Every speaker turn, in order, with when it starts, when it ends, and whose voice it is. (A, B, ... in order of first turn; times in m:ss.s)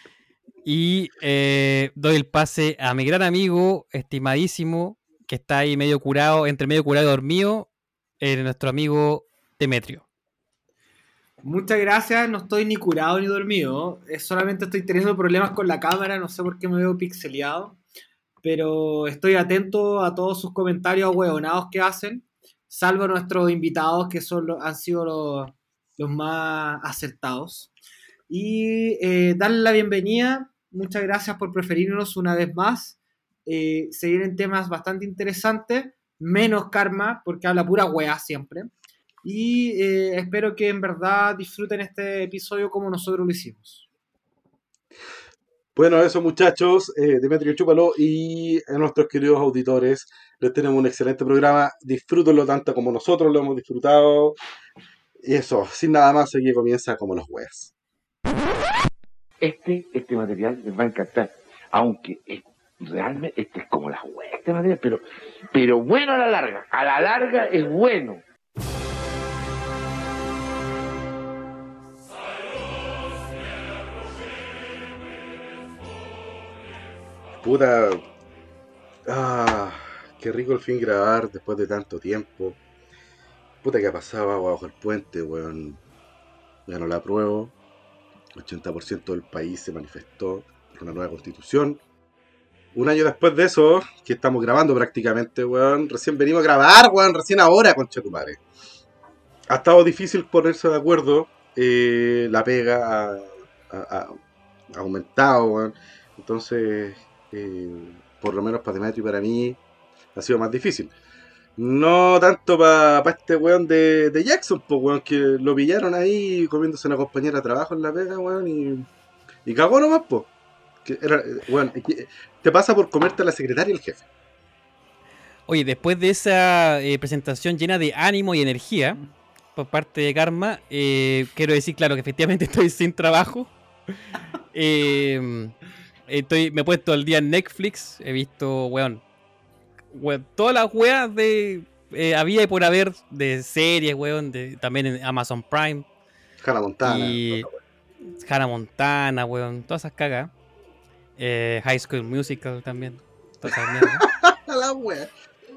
0:00.6-0:07.7 A
0:08.2-0:10.0 A
0:11.4-0:17.8 B
0:18.4-0:27.7 B
0:28.3-0:38.7 B
0:39.2-0:43.8 B
0:45.8-0:54.4 C
0:55.2-0:57.7 C
0:59.4-1:08.2 D
1:17.4-1:18.0 C
1:19.1-1:22.6 C
1:23.6-1:25.8 C
1:26.7-1:27.5 C
1:28.4-1:31.8 C
1:32.7-1:38.4 C
1:39.5-1:44.2 C
1:44.7-1:49.6 C
1:50.1-1:50.9 C
1:51.6-1:58.8 C
1:59.4-2:00.3 C
2:00.8-2:04.0 C
2:05.5-2:09.0 A
2:09.6-2:13.5 A
2:14.5-2:15.5 A
2:16.1-2:19.0 A
2:19.9-2:25.8 A
2:26.4-2:27.6 C
2:26.8-2:27.5 A
2:28.2-2:30.3 A
2:31.2-2:34.1 A
2:33.8-2:35.1 C